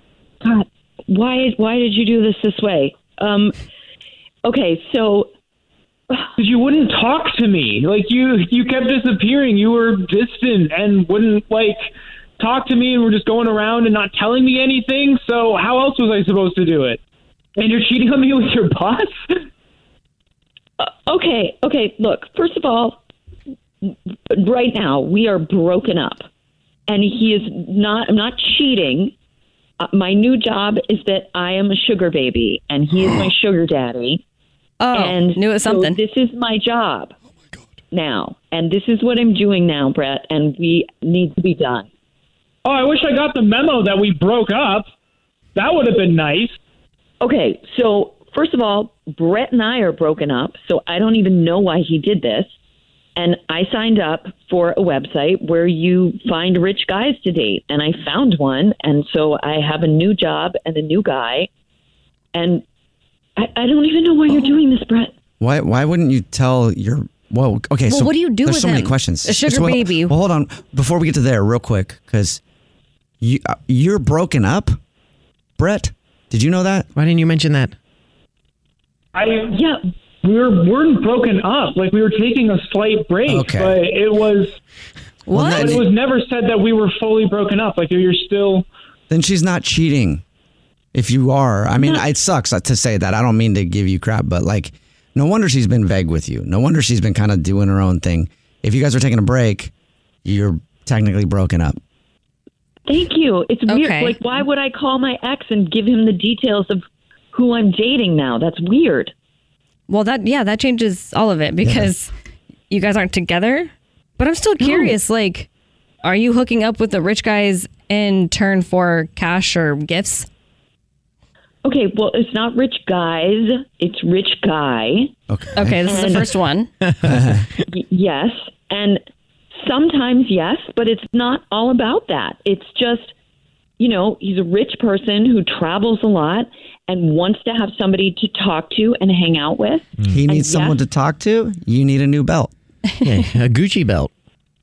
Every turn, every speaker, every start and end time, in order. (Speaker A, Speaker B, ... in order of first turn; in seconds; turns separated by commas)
Speaker A: 0.4-3.5, Speaker A: 4.4-5.3, Speaker B: 6.4-17.0, Speaker B: 17.6-19.1, Speaker A: 20.8-23.0, Speaker A: 23.8-26.3, Speaker A: 26.9-29.1, Speaker A: 29.8-34.2, Speaker C: 34.8-36.0, Speaker A: 34.9-37.1, Speaker A: 37.9-41.9, Speaker B: 42.6-44.9, Speaker B: 45.5-46.6, Speaker A: 47.2-52.5, Speaker A: 53.1-61.5, Speaker A: 62.3-62.6, Speaker A: 63.4-65.1, Speaker D: 65.4-72.4, Speaker C: 67.9-70.2, Speaker D: 73.2-74.8, Speaker D: 75.6-76.9, Speaker E: 76.9-77.7, Speaker B: 79.1-79.6, Speaker A: 79.5-79.8, Speaker B: 80.2-84.5, Speaker D: 83.3-83.8, Speaker C: 85.3-85.8, Speaker D: 85.3-85.9, Speaker B: 85.6-88.7, Speaker D: 89.1-90.2, Speaker D: 90.9-99.7, Speaker A: 91.8-92.0, Speaker D: 100.2-101.8, Speaker A: 102.8-109.1, Speaker C: 103.7-104.2, Speaker C: 109.9-112.1, Speaker D: 111.6-111.9, Speaker C: 112.7-115.5, Speaker A: 114.6-114.9, Speaker C: 116.0-120.3, Speaker A: 121.6-125.1, Speaker D: 125.3-125.9, Speaker C: 125.5-126.7, Speaker A: 125.9-126.3, Speaker D: 127.0-127.5, Speaker A: 127.7-129.0, Speaker A: 129.5-133.1, Speaker A: 133.8-140.8, Speaker D: 140.1-142.5, Speaker E: 143.0-144.1